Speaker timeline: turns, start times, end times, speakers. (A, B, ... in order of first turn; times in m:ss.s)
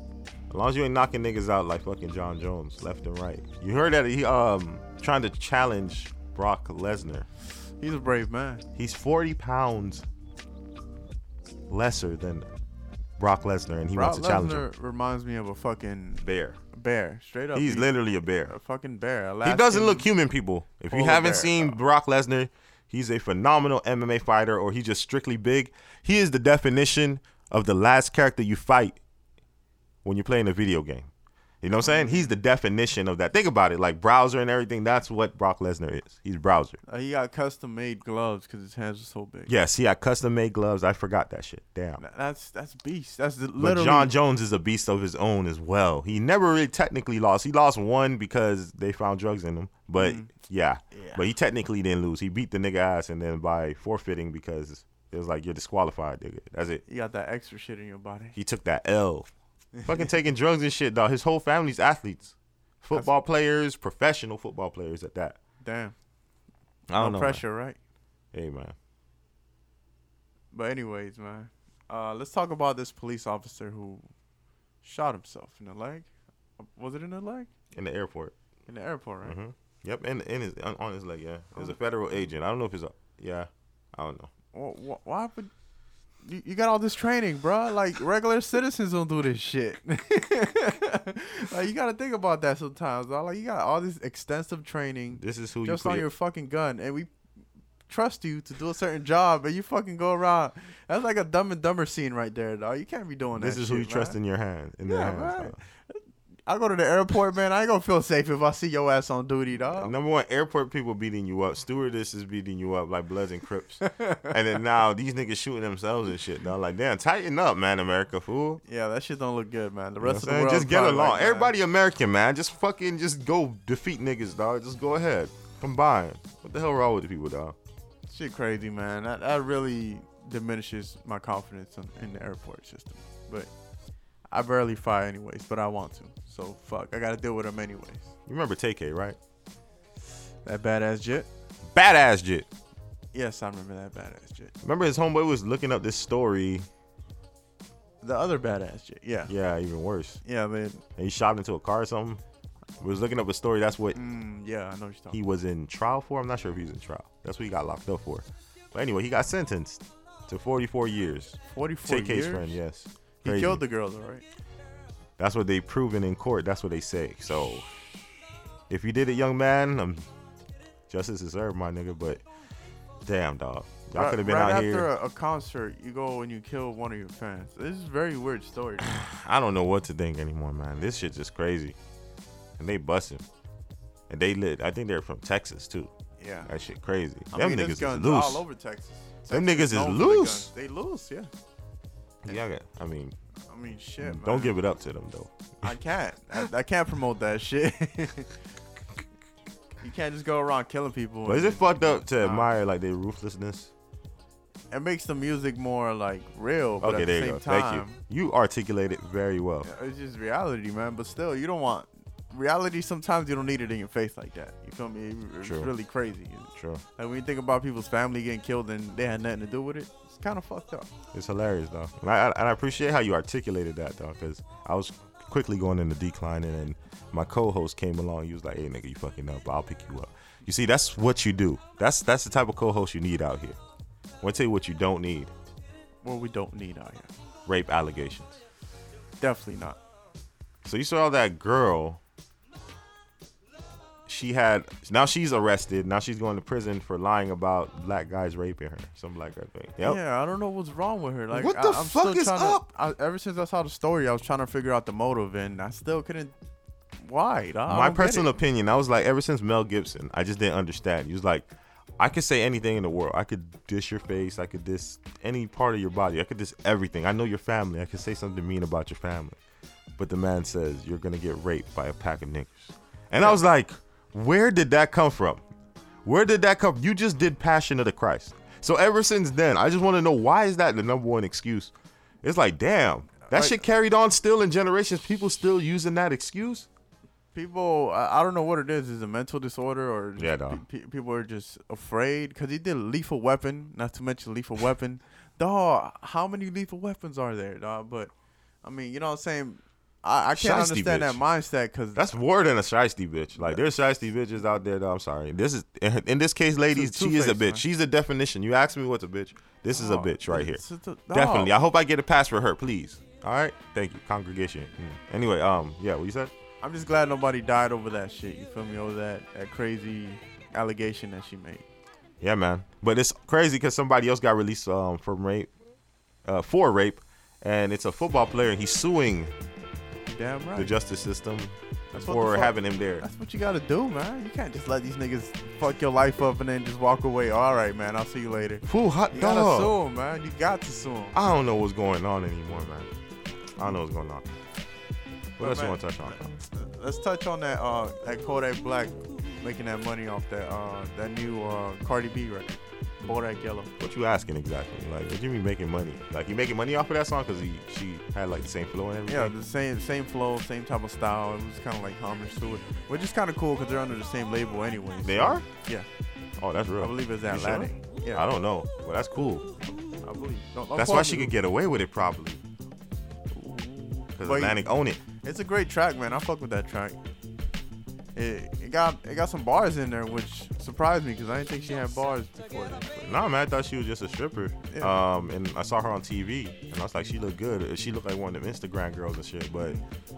0:00.5-0:07.3 A
0:07.8-0:08.6 B
0:08.8-0:10.1 A
0:11.7-0:12.5 A
0:13.2-0:14.7 A
0:13.9-0:17.9 B
0:16.2-0:16.6 A
0:17.5-0:18.5 A
0:18.4-0:20.1 B
0:19.4-0:29.0 A
0:20.9-0:21.8 B
0:30.0-0:31.1 A
0:31.6-0:36.8 A
0:31.8-0:32.3 B
0:36.9-0:39.5 B
0:39.5-0:42.0 A
0:42.0-0:44.1 B
0:43.6-0:56.8 A
0:50.0-0:50.3 B
0:50.9-0:51.2 B
0:56.9-0:58.4 B
0:58.4-0:59.3 A
0:59.8-1:00.1 B
0:59.8-1:05.4 A
1:05.6-1:05.9 B
1:06.9-1:07.4 A
1:07.0-1:07.8 B
1:08.3-1:08.8 A
1:10.5-1:14.1 B
1:14.8-1:17.5 B
1:17.7-1:18.4 A
1:18.7-1:19.4 B
1:19.2-1:24.3 A
1:24.5-1:25.5 B
1:26.2-1:37.1 B
1:35.1-1:36.1 A
1:37.9-1:44.2 B
1:43.4-1:45.6 A
1:44.8-1:49.9 B
1:49.7-1:58.6 A
1:53.8-1:54.3 B
1:58.6-2:01.5 B
2:00.0-2:07.6 A
2:08.1-2:13.5 B
2:14.3-2:18.1 B
2:18.3-2:19.2 A
2:20.4-2:21.3 B
2:21.7-2:22.5 A
2:23.1-2:24.5 B
2:24.6-2:26.7 A
2:28.0-2:29.3 B
2:29.3-2:30.2 A
2:30.2-2:30.8 B
2:31.0-2:32.2 A
2:32.8-2:34.0 A
2:34.0-2:35.2 B
2:35.1-2:43.6 A
2:41.5-2:42.6 B
2:43.2-2:44.2 B
2:45.2-2:47.7 A
2:48.7-2:50.1 A
2:50.9-2:52.2 A
2:53.0-2:54.9 A
2:54.0-2:58.9 B
2:58.8-3:01.8 A
3:02.6-3:03.2 A
3:04.1-3:05.9 A
3:06.2-3:06.5 B
3:06.5-3:08.4 A
3:07.3-3:11.3 B
3:09.3-3:10.5 A
3:12.2-3:13.2 A
3:13.5-3:14.6 B
3:14.0-3:15.8 A
3:15.6-3:18.4 B
3:19.8-3:22.5 B
3:21.3-3:23.7 A
3:24.7-3:28.0 B
3:26.8-3:29.7 A
3:29.6-3:40.9 B
3:35.4-3:35.7 A
3:36.6-3:36.8 A
3:41.1-3:53.6 A
3:54.2-3:55.3 A
3:56.0-3:57.1 B
3:57.5-3:58.4 A
3:59.2-3:59.8 B
4:00.6-4:02.0 A
4:04.1-4:10.0 A
4:09.8-4:16.3 B
4:11.3-4:12.6 A
4:17.0-4:18.3 B
4:17.7-4:29.4 A
4:30.0-4:35.4 A
4:36.0-4:46.7 A
4:43.2-4:43.6 B
4:47.3-4:58.1 B
4:50.2-4:50.6 A
4:58.6-5:02.1 B
5:00.4-5:01.2 A
5:02.0-5:16.3 A
5:06.7-5:07.6 B
5:09.7-5:11.6 B
5:16.6-5:21.7 B
5:22.2-5:25.5 A
5:26.2-5:29.3 A
5:30.1-5:30.7 B
5:30.6-5:33.1 A
5:31.9-5:41.3 B
5:38.7-5:39.8 A
5:41.1-5:42.9 A
5:43.6-5:44.3 A
5:45.4-5:46.3 A
5:45.4-5:53.7 B
5:53.8-5:59.3 A
5:59.1-6:05.9 B
6:05.0-6:05.4 A
6:06.4-6:09.4 A
6:06.8-6:08.3 B
6:09.7-6:11.3 B
6:10.8-6:12.4 A
6:13.3-6:14.6 B
6:14.2-6:15.0 A
6:15.2-6:17.0 B
6:18.2-6:23.2 B
6:23.1-6:29.8 A
6:24.7-6:25.0 B
6:29.6-6:29.8 B